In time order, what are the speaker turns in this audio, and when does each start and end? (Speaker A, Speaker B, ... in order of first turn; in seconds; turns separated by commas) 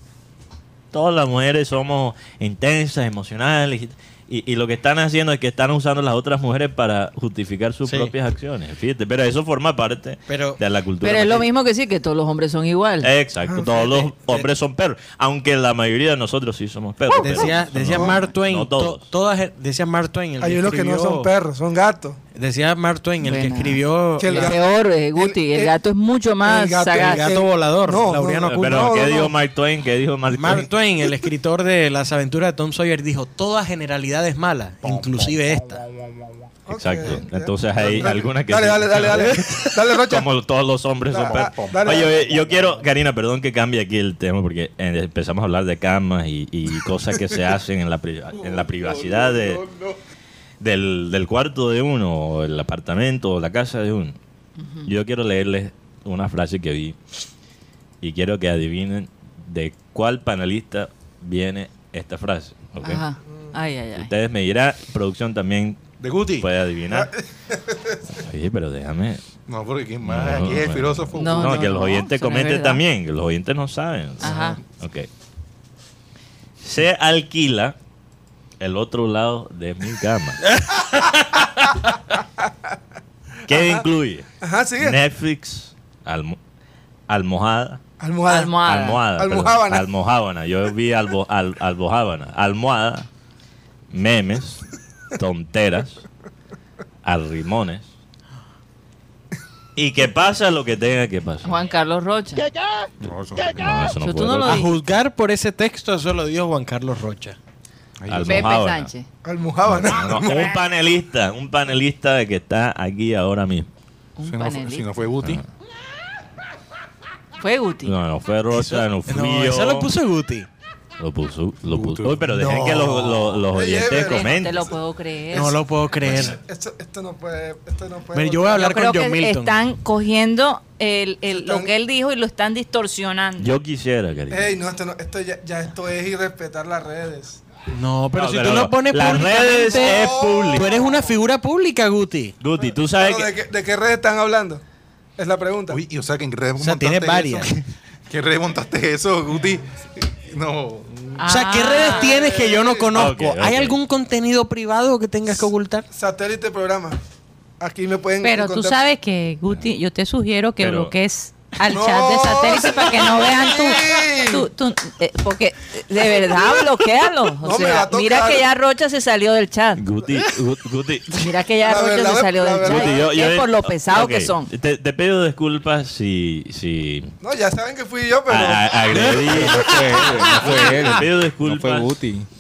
Speaker A: 0.9-11.5, Speaker B: 7.9-8.1, Speaker B: 10.3-10.6, Speaker C: 11.0-13.1, Speaker A: 13.0-19.1, Speaker B: 13.8-14.4, Speaker B: 17.2-21.3, Speaker D: 17.3-18.2, Speaker D: 20.4-22.2, Speaker B: 22.4-24.6, Speaker C: 23.2-27.2, Speaker D: 24.2-25.7, Speaker D: 26.4-29.3, Speaker B: 26.9-29.0, Speaker A: 28.5-30.7, Speaker B: 30.3-35.8, Speaker E: 34.9-35.3, Speaker D: 36.7-40.3, Speaker A: 36.7-49.7, Speaker D: 41.1-42.6, Speaker E: 41.2-42.4, Speaker A: 50.6-54.2, Speaker C: 54.6-54.9, Speaker A: 54.9-57.0, Speaker A: 58.0-63.0, Speaker C: 62.8-64.1, Speaker A: 64.0-65.8, Speaker E: 66.0-66.5, Speaker A: 66.4-67.1, Speaker D: 66.9-68.0, Speaker A: 68.2-69.2, Speaker E: 69.5-71.7, Speaker A: 70.0-75.1, Speaker C: 71.2-72.8, Speaker C: 74.2-74.6, Speaker A: 76.6-77.8, Speaker A: 78.6-80.4, Speaker A: 83.5-86.4, Speaker D: 83.5-83.8, Speaker D: 84.4-85.0, Speaker A: 87.1-87.8, Speaker D: 88.0-88.6, Speaker C: 88.3-89.0, Speaker A: 88.7-93.1, Speaker D: 89.1-89.8, Speaker A: 93.9-96.0, Speaker A: 97.0-97.9, Speaker A: 99.8-101.6, Speaker C: 101.5-102.5, Speaker E: 103.0-103.8, Speaker A: 103.5-104.6, Speaker C: 104.0-104.7, Speaker B: 104.4-107.4, Speaker E: 108.0-108.5, Speaker A: 108.1-108.9, Speaker C: 108.3-109.1, Speaker D: 109.2-110.6, Speaker A: 109.7-113.7, Speaker C: 114.2-114.9, Speaker E: 114.2-115.4, Speaker C: 117.4-117.9, Speaker A: 117.8-119.9, Speaker B: 118.5-120.5, Speaker A: 121.0-124.7, Speaker E: 121.7-123.3, Speaker D: 123.5-124.7, Speaker C: 124.1-125.6, Speaker B: 125.3-126.4, Speaker D: 125.3-128.7, Speaker B: 128.1-129.6, Speaker C: 128.5-133.5, Speaker D: 131.3-131.7, Speaker A: 133.4-134.6, Speaker D: 134.3-137.4, Speaker B: 137.7-142.3, Speaker A: 138.1-140.7, Speaker D: 139.1-141.1, Speaker A: 142.4-143.3, Speaker D: 142.9-144.6, Speaker D: 145.2-145.8, Speaker E: 145.7-147.5, Speaker B: 146.6-147.6, Speaker E: 148.1-151.2, Speaker B: 151.2-155.9, Speaker C: 151.3-152.1, Speaker F: 151.3-151.9, Speaker D: 151.9-153.0, Speaker A: 152.9-153.8, Speaker D: 155.9-157.0, Speaker D: 157.6-158.8, Speaker F: 158.2-162.2, Speaker C: 159.3-159.7, Speaker A: 160.6-160.9, Speaker C: 161.5-169.8, Speaker D: 161.7-164.5, Speaker F: 162.9-163.2, Speaker D: 167.4-168.4, Speaker A: 169.8-171.2, Speaker C: 171.2-174.5, Speaker D: 171.6-173.1, Speaker A: 172.6-177.1, Speaker D: 177.2-179.1, Speaker A: 178.3-181.9, Speaker B: 178.9-179.7, Speaker G: 179.3-182.3